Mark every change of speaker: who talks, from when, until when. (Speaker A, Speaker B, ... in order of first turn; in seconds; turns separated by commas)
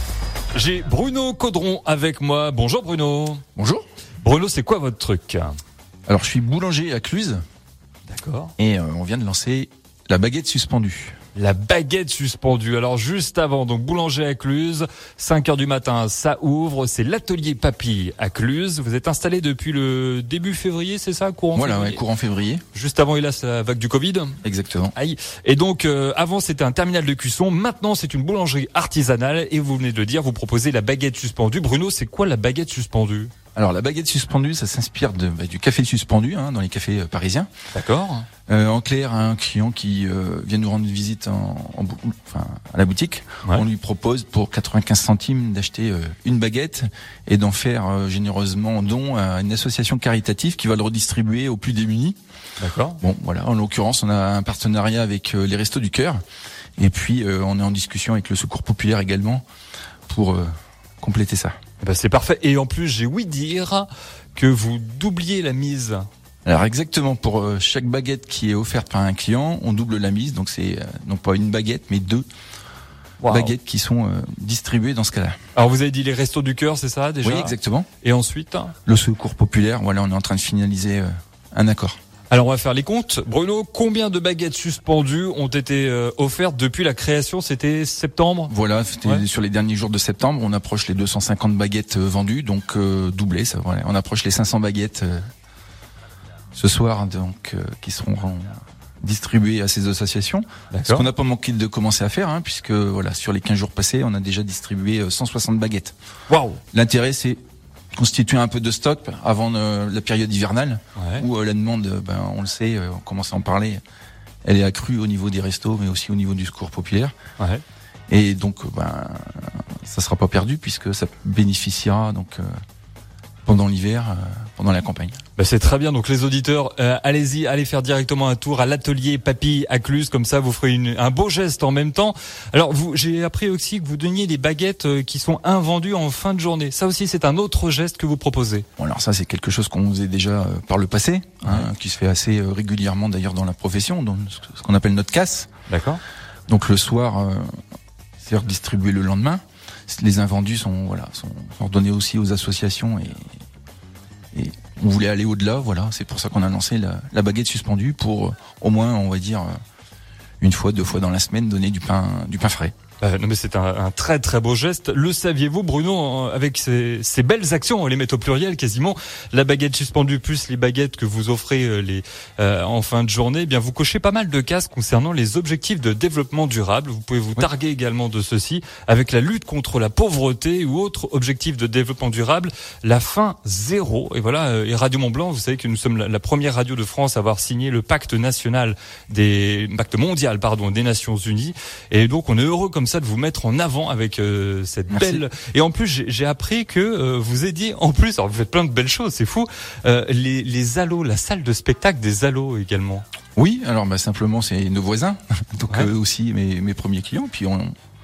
Speaker A: 0.5-3.4, Speaker B: 3.5-3.8, Speaker A: 4.2-5.6, Speaker B: 6.1-7.4, Speaker A: 8.1-8.5, Speaker B: 8.6-11.2, Speaker A: 11.3-22.0, Speaker B: 21.5-22.6, Speaker A: 22.7-24.4, Speaker B: 24.4-24.9, Speaker A: 24.9-33.3, Speaker B: 33.5-37.5, Speaker A: 37.7-38.3, Speaker B: 38.5-52.2, Speaker A: 52.6-53.0, Speaker B: 53.0-56.2, Speaker B: 56.8-59.4, Speaker B: 60.1-61.5, Speaker A: 61.8-66.1, Speaker B: 66.4-72.2, Speaker A: 73.2-73.5, Speaker B: 73.3-75.4, Speaker A: 75.5-78.7, Speaker B: 77.2-77.9, Speaker B: 78.8-82.0, Speaker A: 82.3-88.5, Speaker B: 88.5-95.2, Speaker B: 96.5-105.9, Speaker A: 100.7-101.1, Speaker A: 106.3-106.6, Speaker B: 106.7-107.4, Speaker B: 108.0-113.8, Speaker A: 111.0-111.2, Speaker B: 114.4-117.1, Speaker B: 118.1-122.5, Speaker B: 123.5-125.2, Speaker A: 125.4-138.7, Speaker B: 138.8-145.5, Speaker A: 145.7-146.0, Speaker B: 146.5-147.5, Speaker B: 148.2-153.3, Speaker B: 154.3-159.5, Speaker B: 160.4-162.7, Speaker A: 163.0-203.0, Speaker B: 194.9-195.2, Speaker B: 203.3-207.7